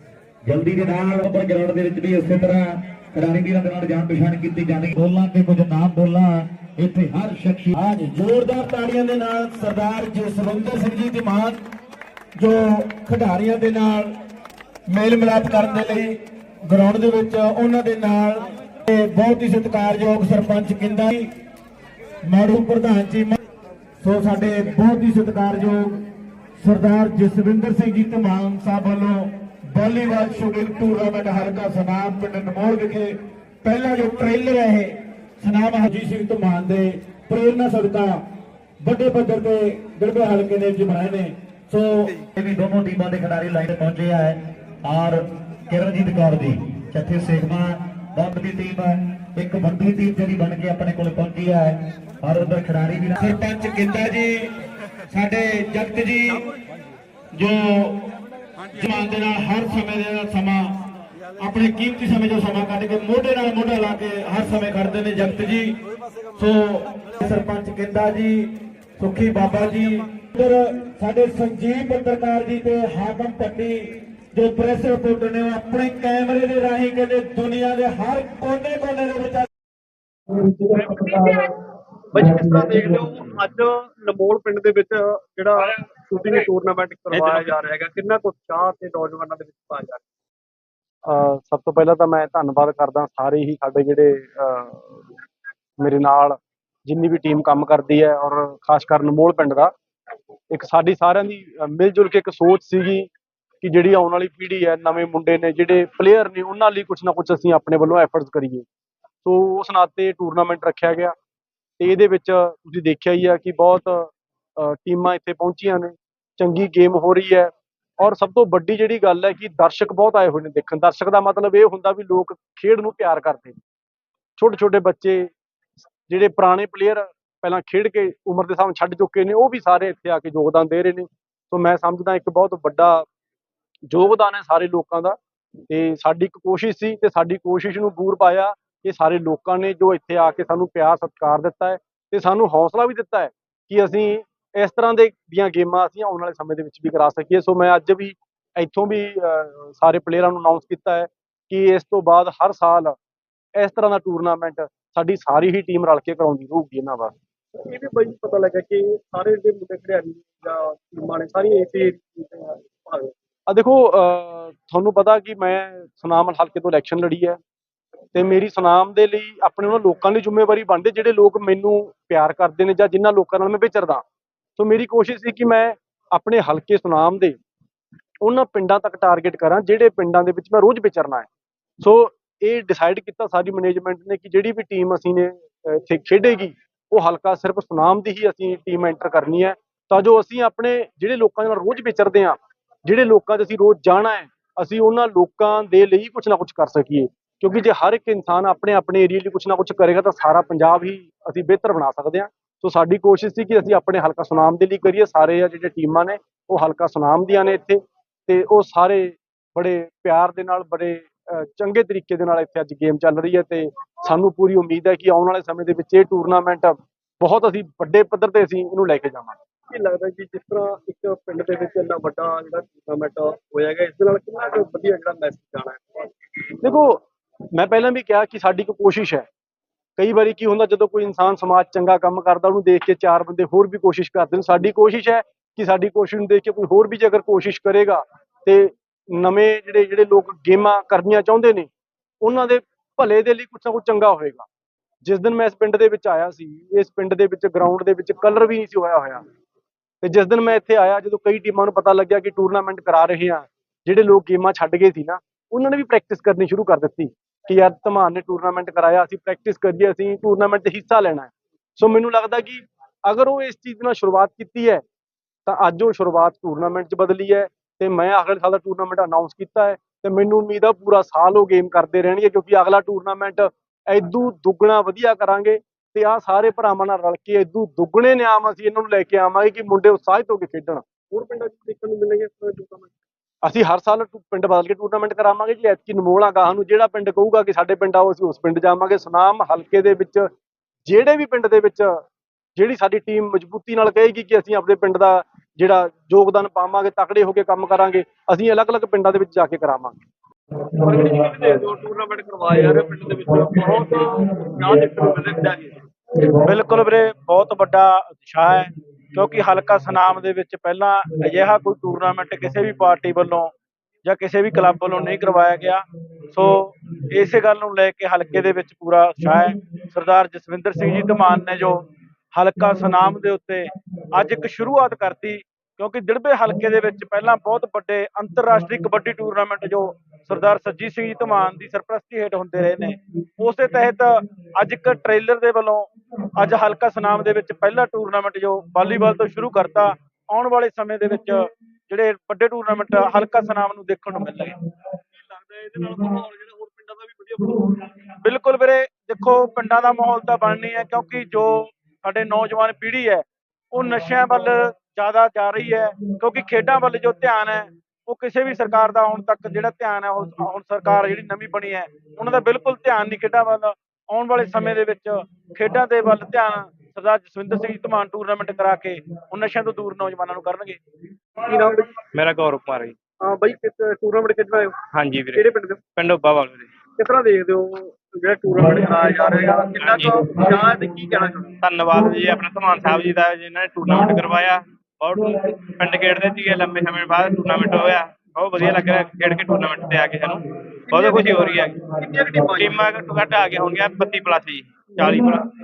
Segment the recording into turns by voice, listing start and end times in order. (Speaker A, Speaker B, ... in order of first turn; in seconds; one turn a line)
Speaker A: 0.5-7.8
Speaker B: 7.8-11.6
Speaker B: 12.4-14.1
Speaker B: 14.9-21.3
Speaker B: 22.3-23.4
Speaker C: 22.5-23.0
Speaker B: 24.0-26.0
Speaker B: 26.6-38.2
Speaker B: 38.8-42.1
Speaker A: 42.4-53.4
Speaker B: 53.2-54.5
Speaker B: 55.1-56.5
Speaker B: 57.4-58.0
Speaker B: 58.7-60.7
Speaker B: 61.4-65.8
Speaker B: 66.4-79.5
Speaker D: 82.1-90.0
Speaker E: 87.1-87.5
Speaker C: 91.4-94.7
Speaker C: 95.8-96.3
Speaker C: 96.9-99.5
Speaker C: 100.5-103.1
Speaker C: 103.6-108.7
Speaker C: 109.2-111.2
Speaker C: 111.8-113.8
Speaker C: 114.6-117.5
Speaker C: 118.0-123.6
Speaker C: 124.4-125.2
Speaker C: 126.1-132.9
Speaker C: 133.9-135.2
Speaker C: 135.7-149.1
Speaker C: 149.7-152.9
Speaker C: 153.6-157.1
Speaker D: 157.6-163.1
Speaker C: 163.5-167.4
Speaker C: 168.1-174.0
Speaker C: 174.6-177.4
Speaker C: 178.2-181.3
Speaker C: 181.8-219.3
Speaker D: 219.7-226.1
Speaker C: 227.6-229.2
Speaker C: 230.0-238.7
Speaker C: 239.2-241.7
Speaker C: 242.2-244.5
Speaker C: 245.0-249.2
Speaker C: 250.0-264.8
Speaker C: 265.5-280.8
Speaker D: 281.1-282.9
Speaker C: 283.4-290.3
Speaker C: 290.9-291.9
Speaker C: 292.6-299.9
Speaker D: 300.9-305.8
Speaker C: 306.5-306.8
Speaker B: 306.5-313.5
Speaker B: 314.1-316.6
Speaker B: 317.1-321.8
Speaker B: 322.4-323.6
Speaker B: 324.2-334.1
Speaker B: 334.6-335.9
Speaker B: 336.4-341.4
Speaker B: 341.9-344.5
Speaker D: 345.1-347.6
Speaker B: 348.2-370.8
Speaker D: 371.4-371.9
Speaker E: 372.1-372.9
Speaker D: 373.2-374.8
Speaker E: 374.9-376.7
Speaker D: 375.4-375.8
Speaker D: 377.0-381.5
Speaker E: 379.8-380.3
Speaker E: 381.6-391.7
Speaker D: 390.9-392.8
Speaker E: 392.5-395.4